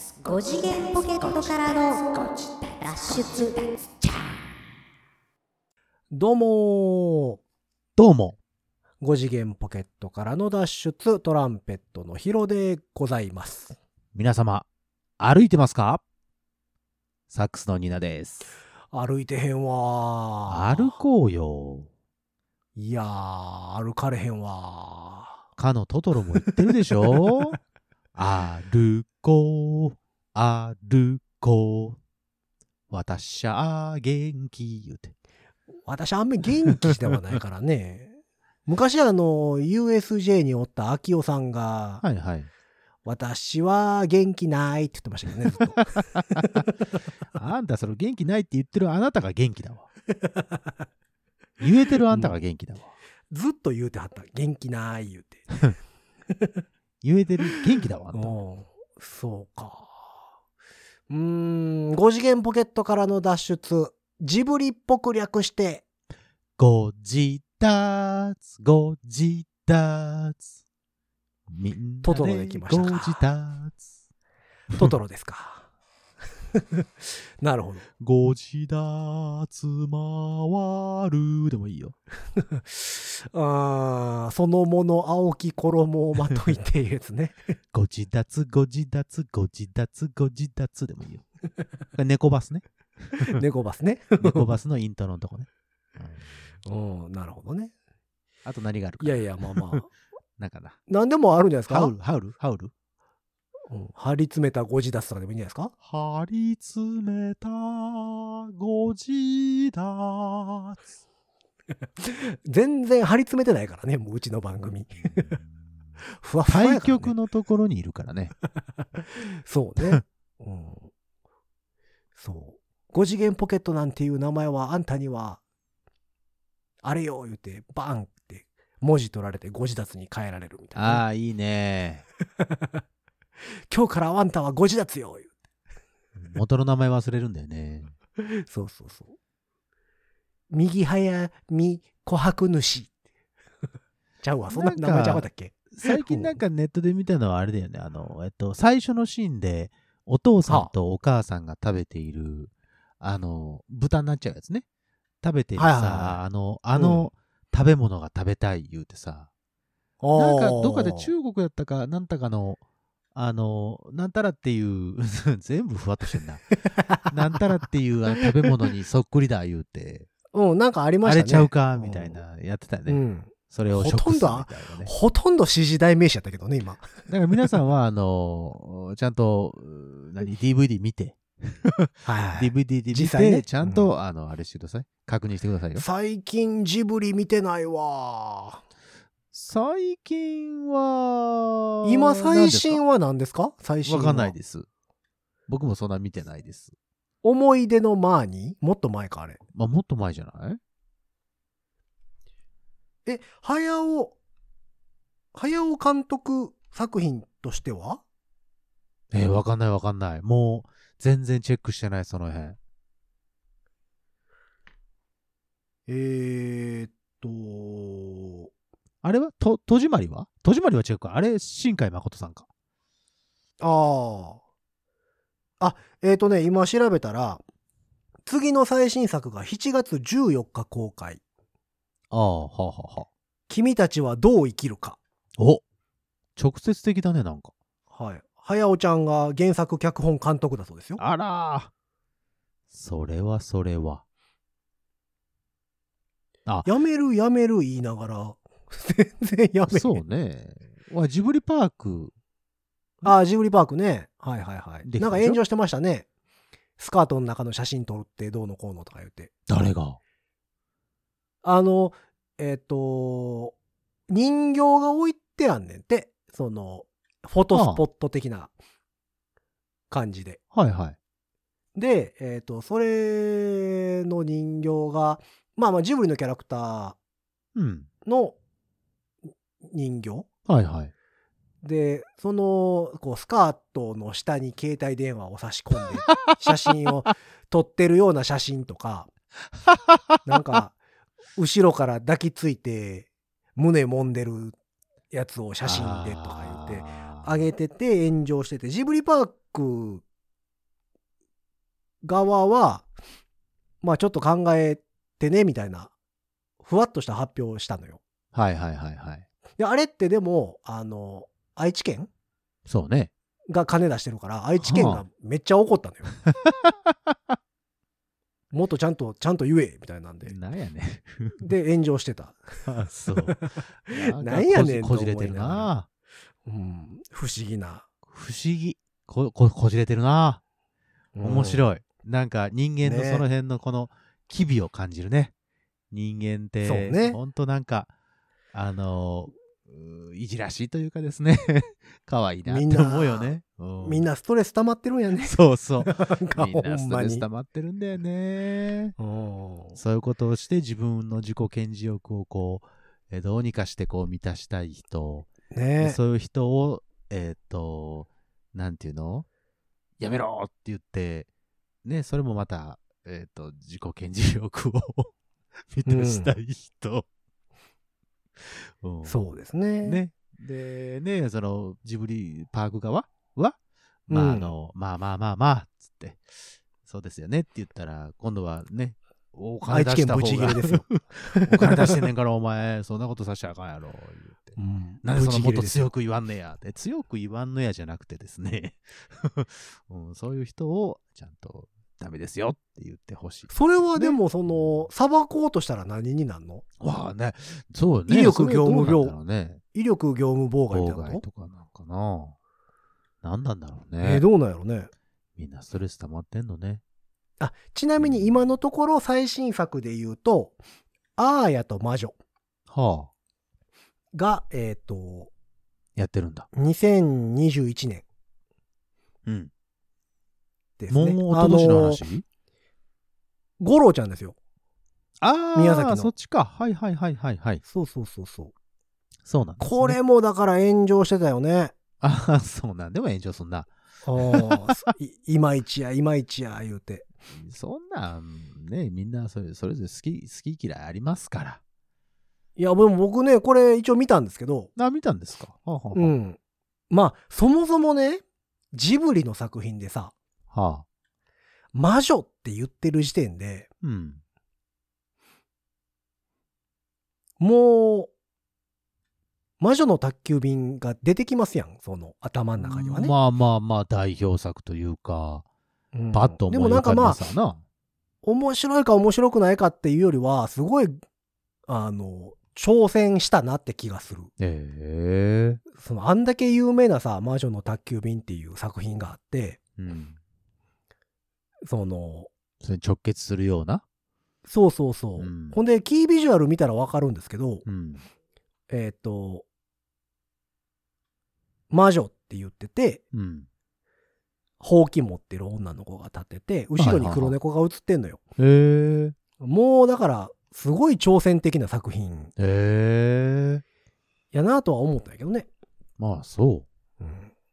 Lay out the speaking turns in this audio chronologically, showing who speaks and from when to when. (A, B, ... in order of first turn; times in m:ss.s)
0:00.2-0:04.4 A
0:06.1-0:07.4 B
0:08.0-0:08.4 C
0:09.0-0:13.8 B
0:14.2-0:14.7 C
0:15.2-0:16.0 C
0:17.3-0:18.6 C
0:18.9-0:21.0 B
0:20.5-0:21.9 C
0:22.8-0:25.4 B
0:25.6-0:27.6 C
0:27.1-0:27.4 B
0:28.2-0:32.0 C
0:32.9-0:35.1 C
0:35.9-0:42.0 B
0:42.0-0:42.5 C
0:43.1-0:45.8 B
0:45.6-0:46.6 C
0:46.4-0:46.7 B
0:47.4-0:49.9 C
0:50.2-0:50.7 B
0:51.6-0:52.9 C
0:52.1-0:52.4 B
0:53.3-0:55.6 B
0:57.0-0:58.3 C
0:58.1-1:00.0 B
1:01.1-1:05.8 B
1:06.6-1:10.4 C
1:11.5-1:13.8 C
1:12.0-1:13.2 B
1:14.7-1:15.7 B
1:16.6-1:17.8 B
1:18.0-1:22.0 C
1:22.4-1:27.6 B
1:27.7-1:31.2 C
1:31.9-1:33.4 C
1:33.2-1:34.5 B
1:34.2-1:35.5 C
1:36.7-1:37.7 B
1:38.4-1:39.8 C
1:39.0-1:39.9 B
1:40.4-1:40.8 C
1:40.9-1:41.9 B
1:41.7-1:42.7 C
1:43.7-1:45.7 B
1:45.8-1:50.9 C
1:52.0-1:55.3 B
1:55.0-1:55.5 C
1:56.2-1:57.2 B
1:56.5-1:58.3 C
1:59.0-2:00.9 B
2:02.2-2:05.4 B
2:06.8-2:11.0 B
2:10.8-2:12.0 C
2:12.4-2:12.8 B
2:13.7-2:15.3 B
2:16.2-2:17.9 C
2:18.2-2:19.2 B
2:20.5-2:22.9 B
2:24.2-2:26.4 B
2:24.5-2:34.6 C
2:30.5-2:30.7 B
2:35.2-2:39.3 C
2:35.6-2:36.2 B
2:36.7-2:37.1 B
2:40.0-2:41.1 B
2:40.2-2:42.6 C
2:43.2-2:50.1 C
2:46.7-2:47.4 B
2:50.3-2:52.2 B
2:51.0-2:54.9 C
2:52.9-2:56.9 B
2:57.1-3:05.8 C
3:02.0-3:03.9 B
3:05.8-3:08.6 B
3:09.3-3:12.8 C
3:11.8-3:14.3 B
3:13.9-3:14.7 C
3:15.5-3:16.8 C
3:17.2-3:19.4 B
3:19.6-3:20.6 C
3:23.1-3:24.2 B
3:25.3-3:28.0 B
3:29.1-3:32.6 C
3:35.9-3:38.5 B
3:39.0-3:42.5 C
3:43.6-3:44.4 B
3:45.6-3:47.4 B
3:48.3-3:51.2 B
3:52.1-3:53.1 C
3:53.5-3:55.0 B
3:55.4-3:55.6 C
3:56.4-3:57.5 C
3:57.9-4:01.0 B
4:01.0-4:01.7 C
4:02.7-4:04.0 C
4:06.6-4:10.0 B
4:09.7-4:12.1 C
4:13.0-4:16.1 B
4:14.8-4:15.4 C
4:16.8-4:19.3 B
4:19.5-4:20.0 C
4:21.4-4:23.6 B
4:24.1-4:28.5 B
4:27.5-4:27.8 C
4:29.9-4:30.4 B
4:30.5-4:31.0 C
4:31.8-4:37.0 B
4:37.6-4:37.9 C
4:38.0-4:38.4 B
4:39.6-4:40.3 B
4:40.5-4:40.9 C
4:41.6-4:49.1 B
4:49.5-4:50.2 C
4:50.2-4:50.8 B
4:51.4-4:54.6 B
4:55.1-5:00.0 B
4:55.6-4:57.5 C
5:02.0-5:02.9 B
5:03.8-5:05.9 B
5:06.6-5:08.0 B
5:08.3-5:09.3 C
5:09.6-5:12.1 B
5:12.7-5:13.1 C
5:13.5-5:16.1 B
5:14.6-5:15.0 C
5:16.3-5:17.2 C
5:18.5-5:20.4 B
5:20.3-5:21.5 C
5:21.4-5:25.7 B
5:22.7-5:25.9 C
5:26.4-5:27.9 B
5:28.1-5:30.4 C
5:31.2-5:31.7 B
5:31.2-5:35.3 C
5:32.8-5:33.2 B
5:35.9-5:37.9 C
5:36.6-5:37.2 B
5:38.5-5:44.1 C
5:42.5-5:47.3 B
5:45.2-5:49.0 C
5:49.0-5:49.8 B
5:49.8-5:55.3 C
5:55.5-5:56.0 B
5:55.8-5:59.3 C
6:00.0-6:01.3 C
6:01.8-6:05.1 C
6:05.7-6:07.1 C
6:05.9-6:06.3 B
6:08.5-6:09.2 C
6:09.1-6:10.0 B
6:09.8-6:34.9 C
6:14.1-6:14.5 B
6:19.7-6:22.0 B
6:24.6-6:25.9 B
6:33.5-6:36.6 B
6:36.8-6:39.6 C
6:38.1-6:39.2 B
6:39.7-6:41.2 B
6:40.7-6:42.4 C
6:43.2-6:44.2 C
6:44.0-6:44.9 B
6:45.4-6:46.8 C
6:47.4-6:50.6 B
6:51.2-6:52.2 B
6:52.7-6:53.1 C
6:54.1-6:55.3 B
6:56.0-6:56.5 C
6:56.5-6:58.0 B
6:59.3-6:59.5 C
7:00.8-7:02.0 B
7:00.9-7:02.2 C
7:03.6-7:04.4 B
7:05.2-7:07.6 C
7:05.6-7:06.1 B
7:07.6-7:08.5 B
7:09.2-7:10.0 C
7:09.6-7:11.8 B
7:12.0-7:14.7 C
7:14.0-7:17.1 B
7:17.3-7:21.6 C
7:22.6-7:24.7 B
7:24.8-7:26.1 C
7:25.9-7:26.4 B
7:26.9-7:30.1 B
7:30.5-7:30.8 C
7:31.7-7:33.7 B
7:33.8-7:34.2 C
7:37.4-7:38.1 B
7:39.6-7:43.1 B
7:42.6-7:45.4 C
7:45.9-7:47.2 B
7:46.1-7:47.6 C
7:48.2-7:51.0 B
7:51.7-7:54.3 B
7:54.4-7:55.6 C
7:55.7-7:59.6 B
7:59.8-8:00.2 C
8:01.7-8:02.3 B
8:02.6-8:03.8 C
8:04.5-8:07.6 B
8:05.2-8:05.6 C
8:07.6-8:08.0 C
8:08.7-8:09.4 B
8:11.7-8:13.0 B
8:13.1-8:13.5 C
8:14.6-8:18.2 B
8:16.8-8:17.4 C
8:18.4-8:19.2 C
8:19.4-8:22.3 B
8:22.4-8:23.6 C
8:24.3-8:25.5 B
8:26.0-8:26.7 C
8:27.0-8:27.3 B